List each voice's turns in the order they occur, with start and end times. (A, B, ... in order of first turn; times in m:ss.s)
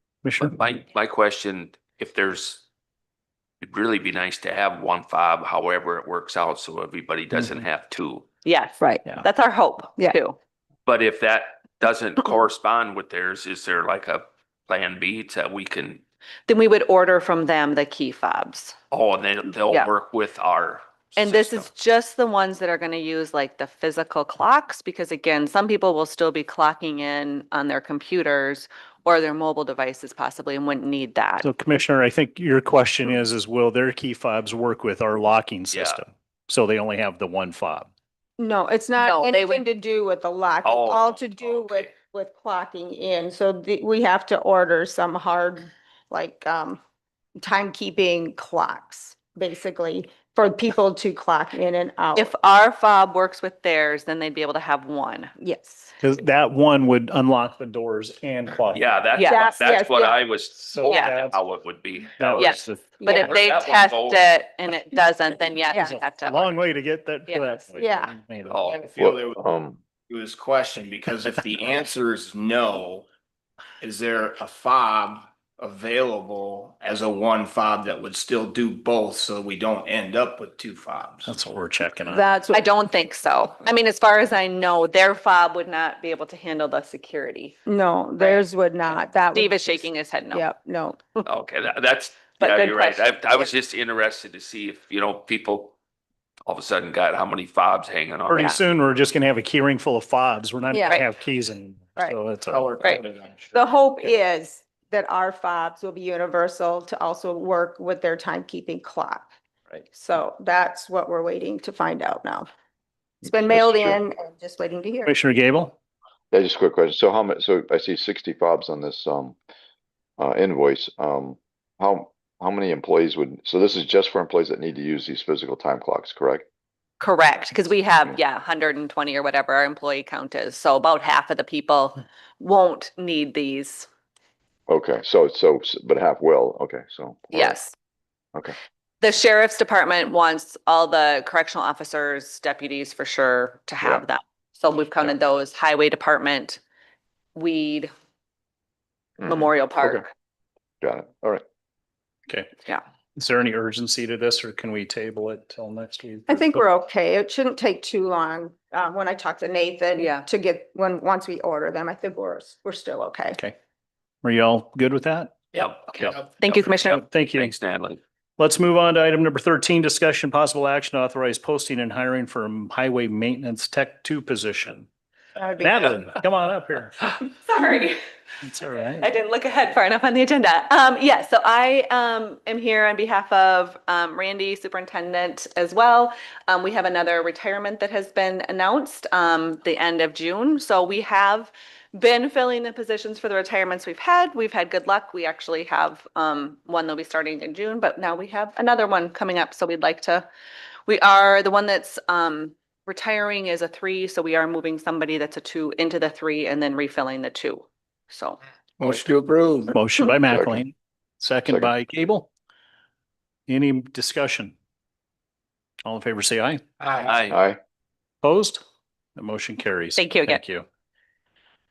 0:00.2-0:00.6 A
0:00.5-0:02.6 B
0:03.6-0:08.3 B
0:08.4-0:10.4 C
0:08.8-0:09.1 D
0:10.8-0:16.0 B
0:16.5-0:18.8 C
0:18.9-0:21.7 B
0:19.6-0:19.9 C
0:21.2-0:31.5 C
0:31.4-0:37.9 A
0:35.7-0:36.0 B
0:38.4-0:46.8 D
0:39.0-0:39.6 C
0:40.6-0:41.9 B
0:47.4-0:52.3 D
0:52.1-0:55.3 C
0:55.4-0:55.9 D
0:56.0-0:58.9 A
0:58.7-1:04.3 B
0:59.2-0:59.5 C
0:59.2-1:00.2 D
1:00.6-1:01.4 A
1:00.8-1:01.2 C
1:02.2-1:03.1 A
1:02.4-1:06.5 C
1:03.0-1:03.6 D
1:05.7-1:05.9 D
1:05.8-1:08.7 A
1:07.3-1:07.6 C
1:07.8-1:08.1 D
1:08.5-1:08.8 B
1:08.6-1:09.4 E
1:09.0-1:09.8 F
1:10.0-1:13.1 E
1:13.8-1:21.4 E
1:21.3-1:22.2 A
1:22.0-1:22.6 D
1:22.5-1:27.6 C
1:27.6-1:31.2 D
1:28.2-1:28.5 C
1:29.3-1:30.5 C
1:31.2-1:35.7 B
1:32.4-1:33.5 C
1:36.4-1:38.5 B
1:38.3-1:42.7 A
1:38.3-1:38.6 C
1:40.7-1:41.0 D
1:42.5-1:43.6 E
1:43.5-1:49.3 D
1:49.9-1:52.5 D
1:53.2-1:55.1 D
1:53.3-1:54.0 F
1:55.0-1:55.7 A
1:56.3-1:59.4 F
2:00.2-2:06.4 F
2:07.0-2:13.9 C
2:14.7-2:17.6 F
2:17.3-2:17.7 C
2:19.0-2:26.6 C
2:27.3-2:27.9 C
2:29.2-2:30.0 F
2:29.2-2:30.1 C
2:30.8-2:31.4 F
2:33.2-2:36.6 A
2:36.3-2:43.4 D
2:40.0-2:40.2 C
2:44.2-2:45.3 A
2:45.5-2:48.0 B
2:46.4-2:47.0 C
2:46.9-2:47.5 A
2:48.4-2:54.9 A
2:55.4-2:56.0 D
2:55.6-2:57.1 A
2:57.2-2:58.0 C
2:58.4-2:59.1 A
2:59.0-3:20.3 C
3:20.9-3:28.4 C
3:28.8-3:29.8 E
3:29.7-3:32.3 A
3:30.3-3:30.6 F
3:33.5-3:34.5 A
3:35.8-3:36.6 A
3:36.8-3:37.3 E
3:37.0-3:37.4 B
3:37.3-3:37.6 F
3:38.2-3:38.6 A
3:39.2-3:40.6 A
3:40.0-3:40.4 C